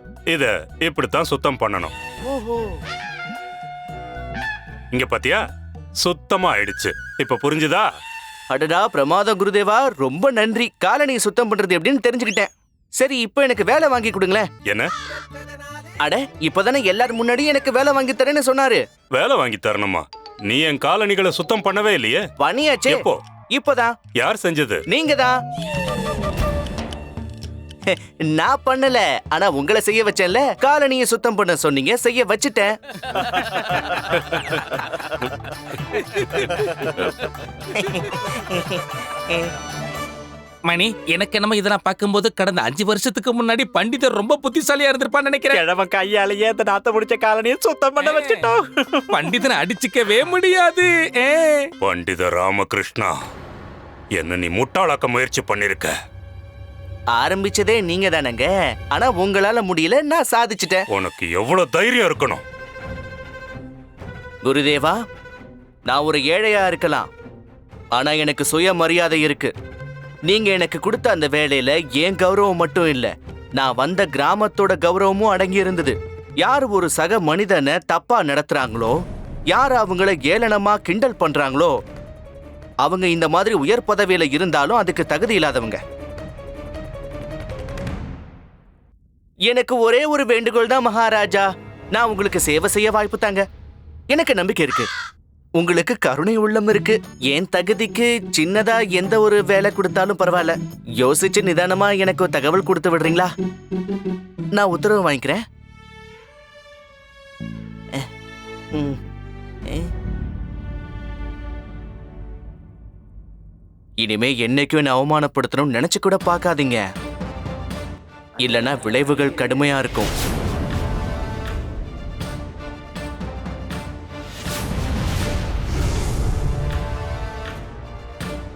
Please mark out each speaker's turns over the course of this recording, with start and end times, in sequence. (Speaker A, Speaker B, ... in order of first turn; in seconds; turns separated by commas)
Speaker A: 0.3-1.9, Speaker B: 2.3-2.8, Speaker A: 4.9-5.4, Speaker A: 6.0-7.8, Speaker B: 8.5-14.5, Speaker B: 16.0-18.8, Speaker A: 19.1-22.2, Speaker B: 22.4-23.9, Speaker A: 22.9-23.2, Speaker A: 24.2-24.8, Speaker B: 24.9-25.3, Speaker B: 27.9-32.8, Speaker C: 40.7-45.6, Speaker D: 45.5-49.2, Speaker C: 48.0-48.5, Speaker C: 49.1-51.7, Speaker A: 51.8-53.1, Speaker A: 54.1-55.9, Speaker B: 57.1-60.8, Speaker A: 60.9-62.4, Speaker B: 64.4-65.0, Speaker B: 65.8-67.1, Speaker B: 67.9-69.5, Speaker B: 70.2-79.0, Speaker B: 79.5-81.7, Speaker B: 82.8-85.8, Speaker B: 89.4-93.4, Speaker B: 94.1-94.9, Speaker B: 95.6-103.3, Speaker B: 104.5-105.4, Speaker B: 108.7-109.0, Speaker B: 114.0-116.8, Speaker B: 118.4-120.1